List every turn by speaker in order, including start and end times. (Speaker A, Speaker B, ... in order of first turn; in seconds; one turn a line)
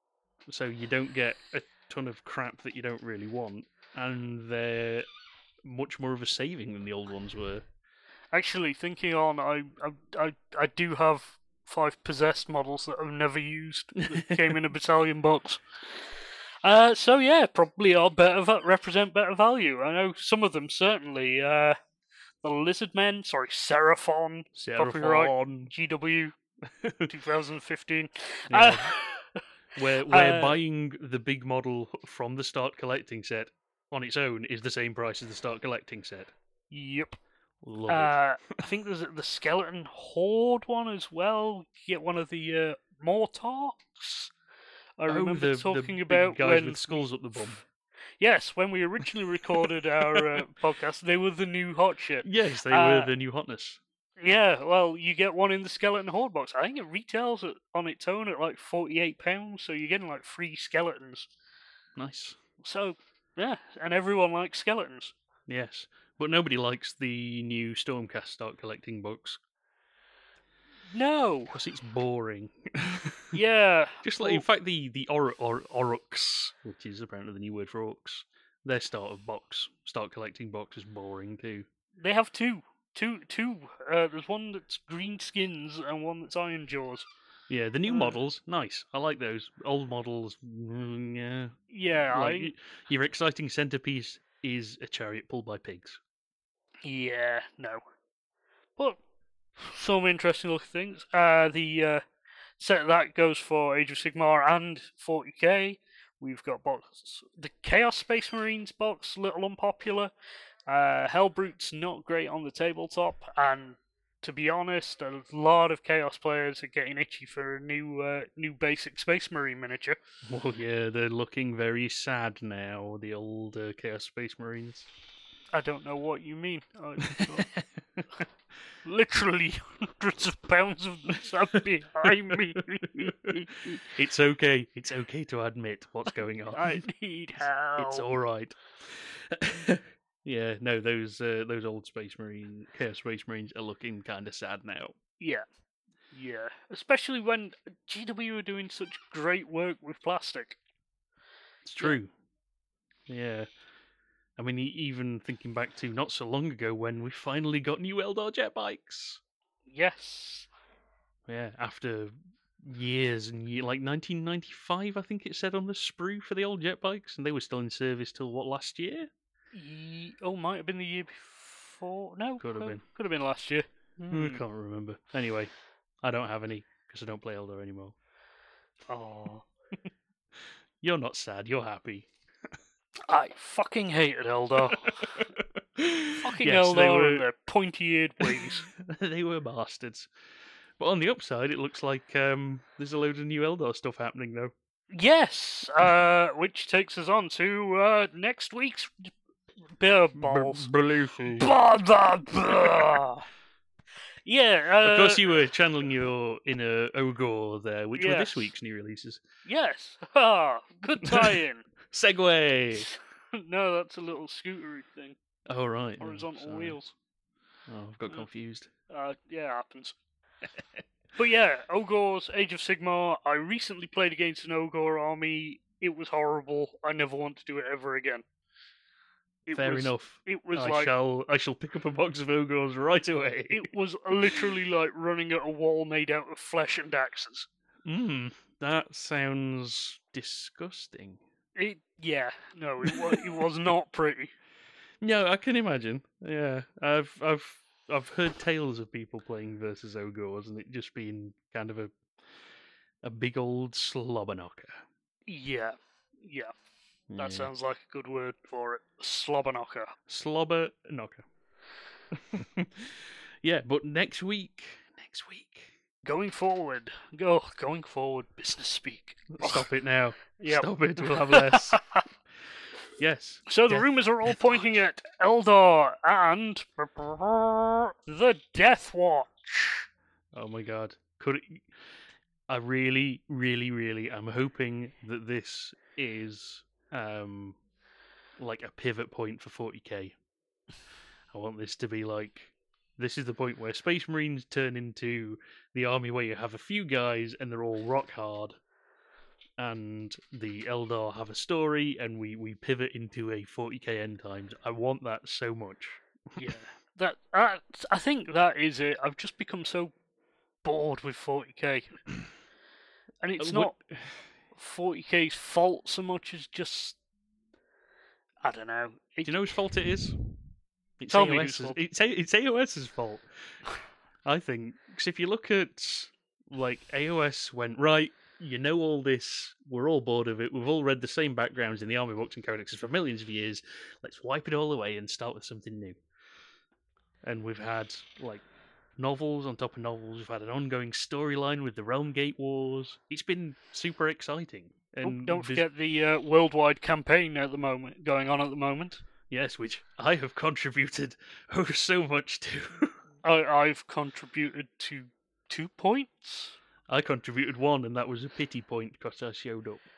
Speaker A: 0.5-5.1
Speaker A: 5.6-7.6
Speaker B: 8.3-21.8
Speaker A: 13.9-14.6
Speaker B: 22.4-26.3
Speaker A: 24.5-25.7
Speaker A: 26.7-27.1
Speaker B: 27.1-29.4
Speaker A: 28.5-28.9
Speaker A: 29.7-36.3
Speaker B: 30.1-30.6
Speaker B: 36.7-37.1
Speaker A: 37.6-38.6
Speaker B: 37.9-44.3
Speaker B: 45.0-47.6
Speaker A: 45.1-47.6
Speaker B: 48.2-53.1
Speaker A: 49.6-50.4
Speaker A: 52.2-53.8
Speaker B: 54.2-61.3
Speaker A: 62.0-62.4
Speaker B: 62.6-65.1
Speaker A: 65.5-69.4
Speaker B: 70.9-71.5
Speaker A: 71.5-73.4
Speaker B: 73.3-74.4
Speaker A: 74.0-81.7
Speaker B: 82.0-87.0
Speaker A: 87.5-96.0
Speaker B: 87.9-88.2
Speaker B: 91.7-92.5
Speaker B: 96.8-97.8
Speaker B: 99.6-102.0
Speaker B: 102.6-110.1
Speaker B: 110.7-120.0
Speaker A: 120.2-124.9
Speaker B: 125.5-127.5
Speaker A: 127.0-128.1
Speaker B: 128.8-133.8
Speaker A: 132.0-136.8
Speaker B: 136.5-138.1
Speaker A: 137.4-144.9
Speaker B: 145.2-145.4
Speaker B: 146.1-150.6
Speaker A: 151.6-152.1
Speaker A: 153.1-153.5
Speaker A: 154.4-159.2
Speaker B: 159.7-160.5
Speaker A: 161.3-169.1
Speaker B: 169.5-174.4
Speaker A: 172.4-172.8
Speaker A: 174.1-175.5
Speaker A: 176.0-177.9
Speaker B: 178.9-179.4
Speaker A: 180.8-182.1
Speaker B: 183.1-185.2
Speaker A: 184.7-187.2
Speaker B: 186.2-188.7
Speaker A: 188.3-190.1
Speaker A: 190.8-194.5
Speaker B: 194.9-199.1
Speaker B: 199.8-200.7
Speaker A: 200.2-201.5
Speaker B: 201.4-203.2
Speaker B: 204.2-205.3
Speaker A: 204.8-209.2
Speaker B: 208.0-208.5
Speaker B: 209.4-211.7
Speaker A: 211.0-211.4
Speaker A: 211.9-212.9
Speaker B: 212.7-215.2
Speaker A: 215.5-216.8
Speaker B: 216.0-216.9
Speaker A: 217.7-218.7
Speaker B: 218.9-219.9
Speaker B: 221.2-228.2
Speaker B: 229.5-230.9
Speaker A: 229.5-233.7
Speaker B: 233.5-237.5
Speaker A: 237.8-241.2
Speaker B: 241.6-244.3
Speaker A: 242.9-243.2
Speaker A: 245.0-251.9
Speaker A: 253.0-254.8
Speaker B: 255.3-256.5
Speaker A: 257.1-257.5
Speaker B: 257.2-259.9
Speaker A: 260.1-261.2
Speaker A: 262.1-265.7
Speaker B: 266.0-269.7
Speaker A: 269.3-271.8
Speaker B: 270.4-272.0
Speaker A: 273.0-274.5
Speaker B: 273.5-279.9
Speaker A: 280.3-281.7
Speaker A: 282.5-287.6
Speaker A: 288.4-290.1
Speaker A: 291.3-298.6
Speaker A: 299.6-306.5
Speaker B: 306.4-309.9
Speaker B: 310.6-312.0
Speaker B: 313.2-313.7
Speaker A: 313.4-314.3
Speaker B: 314.5-317.0
Speaker B: 318.4-319.4
Speaker A: 319.2-320.2
Speaker A: 321.0-323.2
Speaker B: 321.1-321.8
Speaker A: 324.2-336.0
Speaker A: 337.2-338.4
Speaker A: 339.0-345.6
Speaker B: 345.0-349.0
Speaker A: 349.3-353.0
Speaker B: 353.2-356.6
Speaker A: 356.9-359.8